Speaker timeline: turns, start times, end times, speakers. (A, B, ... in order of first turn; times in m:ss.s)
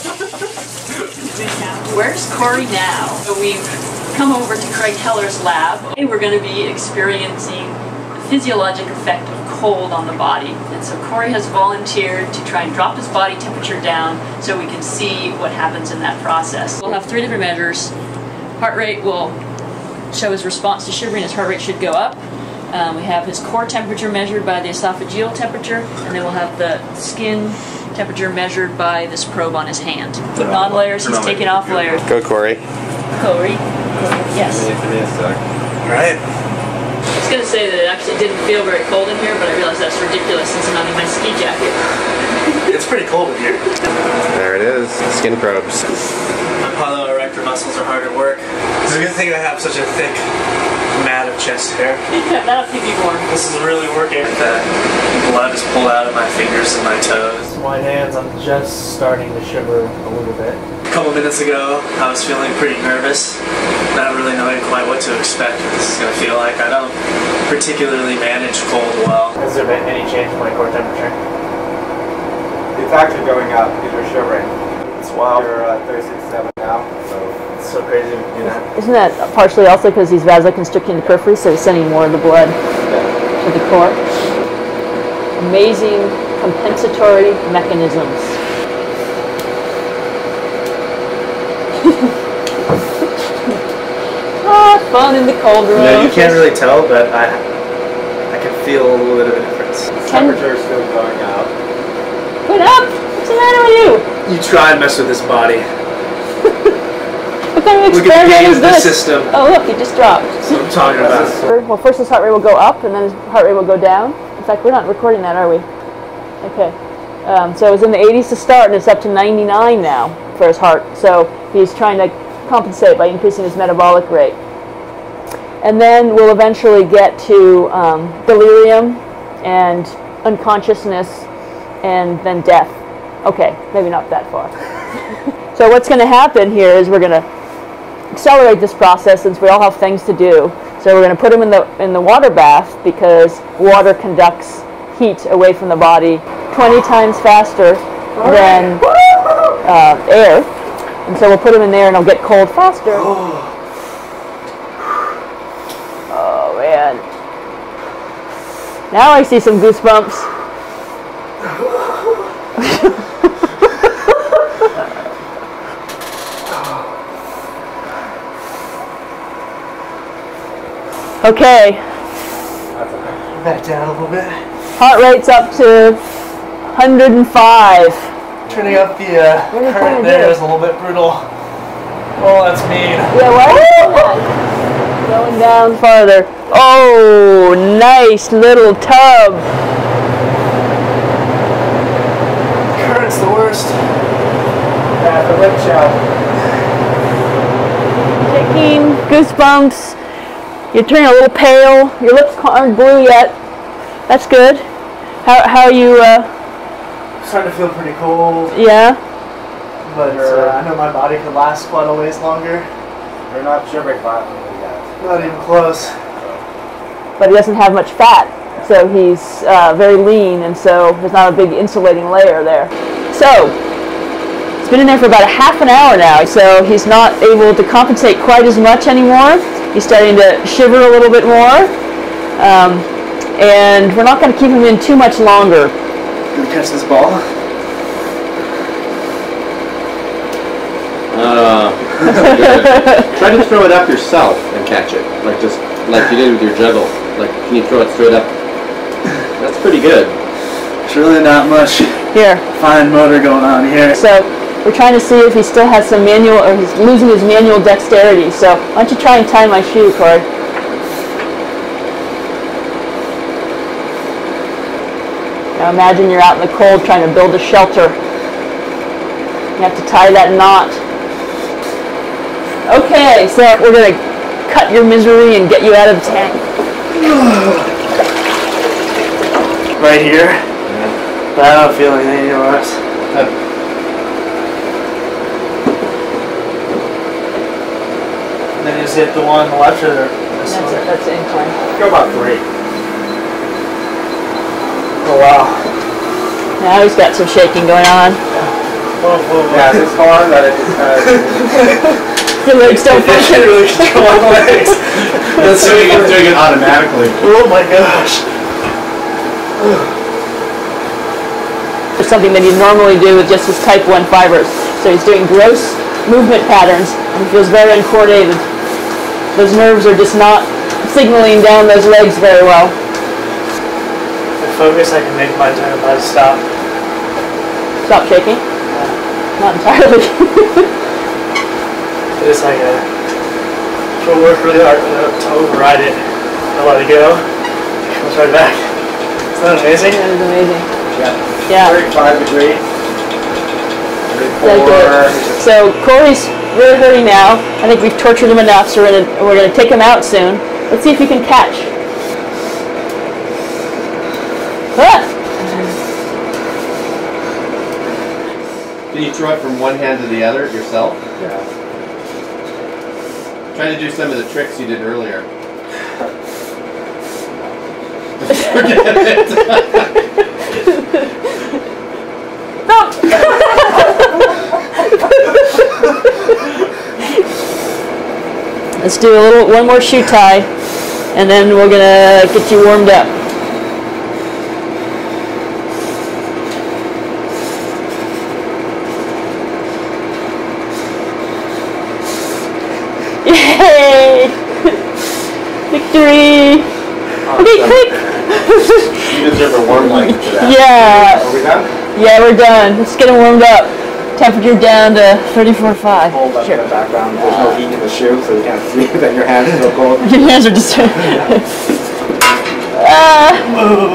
0:01.3-0:17.9 A
0:18.6-0:19.4 A
0:20.1-0:32.0 A
0:30.4-0:32.6 B
0:33.2-0:34.7 A
0:34.3-0:35.4 B
0:35.8-0:36.2 C
0:37.2-0:41.8 A
0:42.6-0:43.6 C
0:44.3-0:45.8 B
0:46.6-0:50.2 C
0:50.9-0:52.0 C
0:52.1-0:53.3 A
0:53.3-1:03.4 C
1:03.9-1:11.2 C
1:12.7-1:14.5 D
1:15.0-1:15.5 C
1:15.3-1:17.4 D
1:17.6-1:18.6 C
1:18.7-1:22.6 A
1:23.4-1:24.0 A
1:25.4-1:28.3 A
1:34.4-1:36.4 A
1:35.7-1:37.4 C
1:38.3-1:39.9 C
1:40.0-1:41.5 D
1:40.0-1:40.4 A
1:42.4-1:44.0 A
1:44.2-1:45.7 C
1:47.5-1:50.6 A
1:47.9-1:49.3 C
1:50.4-1:51.4 C
1:50.9-1:51.4 D
1:51.4-1:55.6 A
1:56.4-2:04.4 A
2:05.6-2:11.2 A
2:11.8-2:14.5 A
2:15.5-2:17.2 A
2:18.1-2:28.8 A
2:28.1-2:29.6 C
2:29.6-2:30.5 A
2:31.0-2:33.1 A
2:32.9-2:33.5 C
2:36.1-2:37.0 A
2:38.9-2:40.3 A
2:51.2-2:51.8 A
2:52.7-2:53.2 D
2:53.3-2:54.4 C
2:54.8-2:56.0 A
2:56.7-2:58.1 A
2:58.4-2:58.9 D
2:58.5-3:01.3 C
2:59.5-3:00.4 A
3:02.2-3:03.1 C
3:03.1-3:04.2 A
3:05.0-3:09.4 A
3:12.7-3:13.8 C
3:15.0-3:16.0 D
3:18.2-3:20.0 A
3:20.7-3:23.3 A
3:24.1-3:24.6 A
3:25.2-3:26.3 A
3:27.2-3:28.6 C
3:28.5-3:29.0 A
3:29.8-3:32.7 C
3:29.9-3:30.7 D
3:33.3-3:36.4 D
3:35.0-3:35.9 C
3:37.2-3:43.6 A
3:44.6-3:51.7 A
3:52.4-3:55.7 A
3:56.3-3:57.2 C
4:01.1-4:08.3 B
4:02.1-4:03.0 A
4:09.4-4:10.2 B
4:10.8-4:12.0 C
4:12.1-4:12.4 A
4:12.5-4:14.0 C
4:13.9-4:20.2 A
4:25.5-4:28.0 A
4:29.6-4:30.8 A
4:32.6-4:36.4 A
4:36.9-4:37.6 C
4:39.8-4:40.4 C
4:40.7-4:40.9 B
4:41.3-4:42.8 C
4:48.6-4:50.8 C
4:50.5-4:51.5 A
4:51.8-4:52.4 D
4:52.2-4:52.4 B
4:55.0-4:55.6 C
4:56.6-4:58.2 A
4:59.0-5:00.0 C
4:59.5-5:01.7 D
5:02.4-5:04.3 A
5:02.6-5:06.3 C
5:05.4-5:07.2 B
5:07.1-5:08.2 C
5:12.0-5:18.4 A
5:19.3-5:22.8 A
5:24.4-5:26.4 C
5:27.8-5:28.4 A
5:29.4-5:30.7 A
5:32.2-5:32.8 C
5:34.0-5:36.0 C
5:36.5-5:37.2 C
5:37.9-5:38.7 C
5:39.3-5:40.0 C
5:39.9-5:40.6 A
5:40.9-5:42.6 D
5:41.5-5:41.8 A
5:44.1-5:45.4 D
5:44.4-5:51.7 A
5:54.7-5:55.7 A
5:58.9-6:01.0 B
6:01.2-6:01.4 D
6:03.5-6:05.3 B
6:08.2-6:09.8 B
6:08.5-6:09.6 A
6:12.7-6:14.1 A
6:18.8-6:20.5 A
6:21.1-6:23.1 A
6:33.2-6:34.8 A
6:35.7-6:36.7 A
6:37.3-6:37.7 D
6:37.4-6:39.2 A
6:39.1-6:40.5 B
6:39.7-6:41.3 A
6:39.7-6:41.7 D
6:41.9-6:46.6 A
6:46.1-6:50.1 D
6:47.2-6:47.6 A
6:50.0-6:51.4 A
6:52.7-6:53.5 A